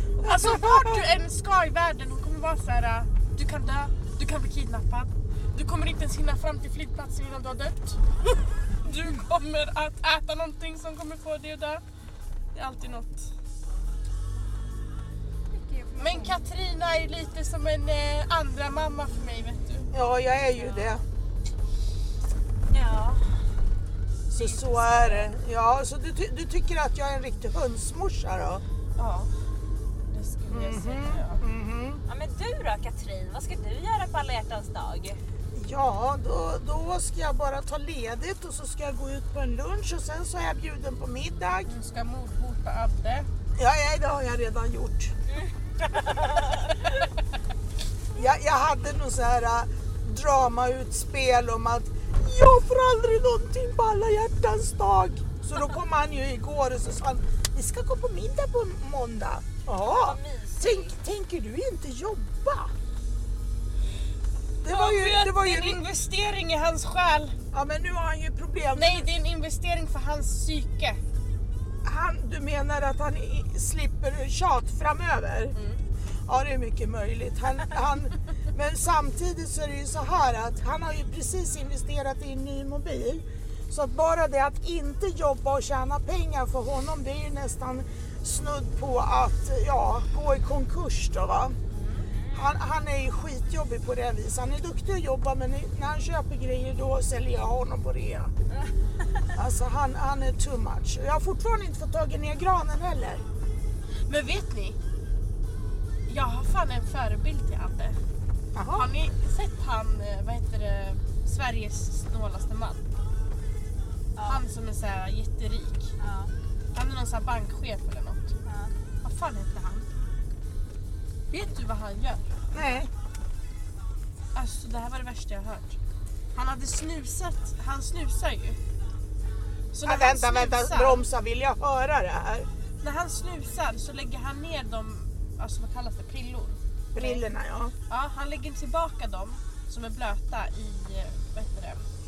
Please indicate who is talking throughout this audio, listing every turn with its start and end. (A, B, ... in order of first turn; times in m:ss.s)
0:00.2-0:11.8 A
0:00.2-0:01.0 B
0:12.5-0:13.3 A
0:15.5-0:16.4 C
0:16.0-0:19.9 A
0:19.9-0:21.0 B
0:20.6-0:20.9 A
0:22.7-0:23.4 C
0:24.3-0:25.3 A
0:24.3-0:28.6 B
0:29.0-0:29.3 A
0:30.1-0:31.4 A
0:30.5-0:32.0 B
0:32.0-0:35.2 C
0:35.5-0:41.7 B
0:41.6-0:43.3 A
0:43.6-0:45.1 B
0:45.3-0:46.9 C
0:48.1-1:02.7 B
0:59.8-1:00.9 C
1:04.6-1:05.8 B
1:04.6-1:07.4 A
1:07.5-1:09.1 B
1:08.7-1:11.0 A
1:11.8-1:15.5 B
1:15.5-1:15.8 A
1:16.2-1:31.6 B
1:31.7-1:32.6 C
1:32.3-1:38.3 B
1:39.3-1:43.2 B
1:44.0-1:44.8 A
1:46.1-1:48.0 A
1:48.5-1:48.9 B
1:48.7-1:52.8 A
1:54.1-1:54.4 C
1:54.2-1:55.9 A
1:56.0-1:56.3 C
1:56.7-1:58.3 A
1:58.4-1:58.7 C
1:59.0-1:59.9 A
2:01.3-2:02.2 A
2:02.5-2:02.9 B
2:04.3-2:05.8 A
2:06.3-2:08.6 A
2:09.7-2:11.1 A
2:09.8-2:12.5 B
2:12.8-2:17.2 A
2:16.9-2:17.7 B
2:17.9-2:21.8 A